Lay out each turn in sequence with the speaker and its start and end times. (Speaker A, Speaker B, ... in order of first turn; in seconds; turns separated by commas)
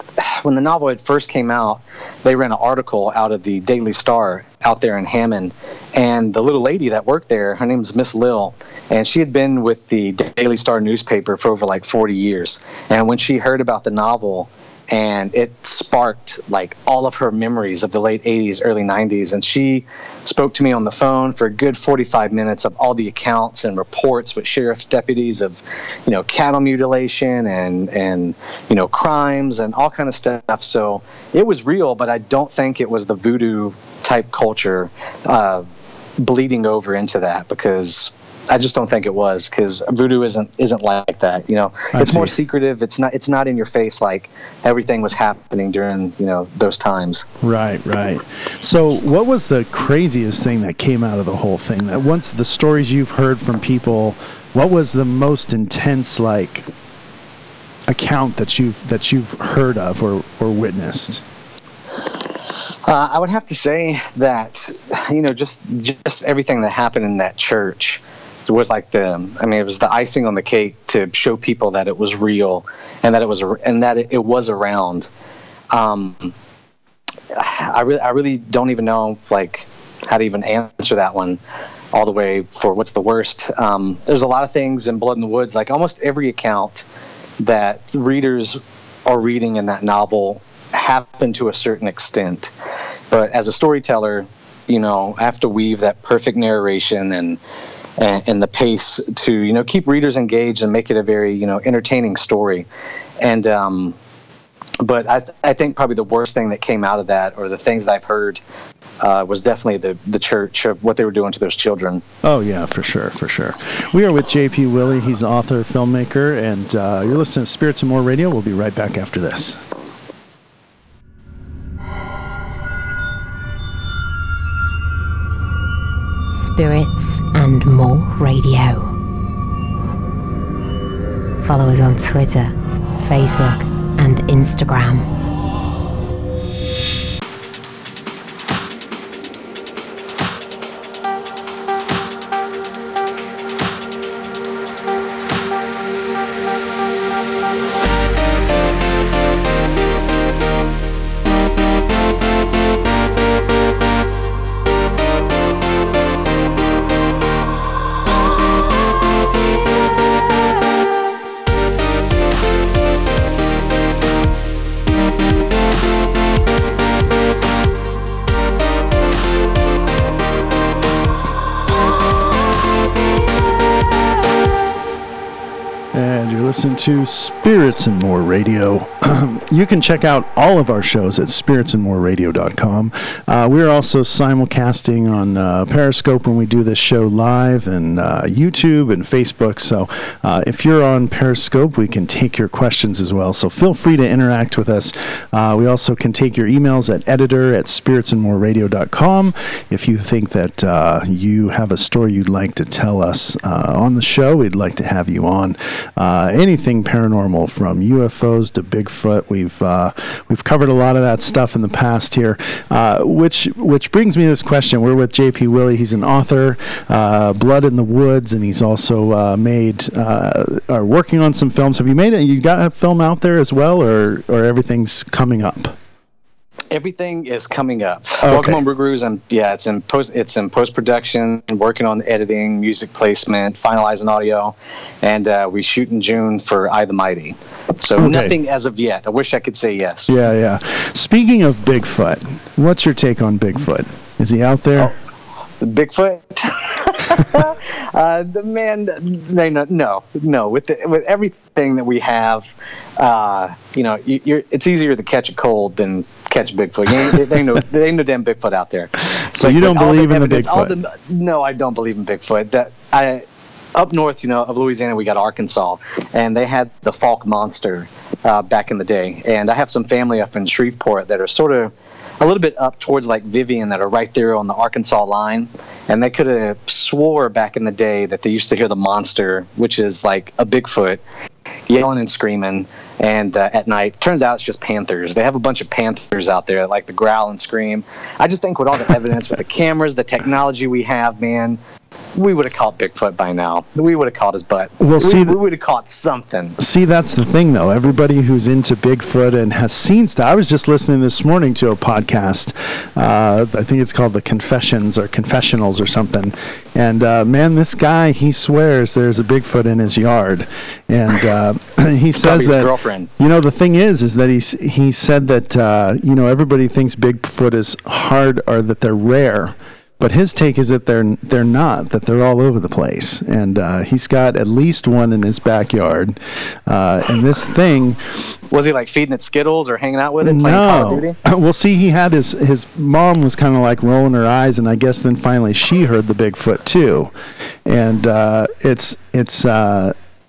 Speaker A: 0.2-35.7, Speaker A: 36.2-47.3, Speaker B: 41.9-42.3, Speaker B: 47.4-56.7, Speaker B: 57.9-61.2, Speaker A: 62.9-75.1, Speaker A: 75.7-76.3, Speaker A: 77.3-81.4, Speaker A: 81.9-86.8, Speaker A: 87.4-92.5, Speaker A: 93.1-97.4, Speaker A: 98.0-102.7, Speaker A: 103.2-104.0, Speaker A: 104.8-108.4, Speaker A: 109.0-112.0, Speaker B: 112.2-119.6, Speaker C: 126.3-128.9, Speaker C: 131.4-135.1, Speaker B: 175.9-225.7, Speaker A: 226.7-240.1, Speaker B: 228.2-228.6, Speaker B: 238.0-238.4, Speaker B: 240.1-244.9, Speaker A: 245.6-263.2, Speaker B: 259.3-260.8, Speaker A: 263.8-281.0, Speaker A: 281.7-291.6, Speaker A: 292.2-296.6, Speaker B: 294.8-295.4, Speaker B: 296.6-328.0, Speaker A: 312.2-313.1, Speaker A: 328.5-331.2, Speaker B: 330.2-337.1, Speaker B: 337.6-339.9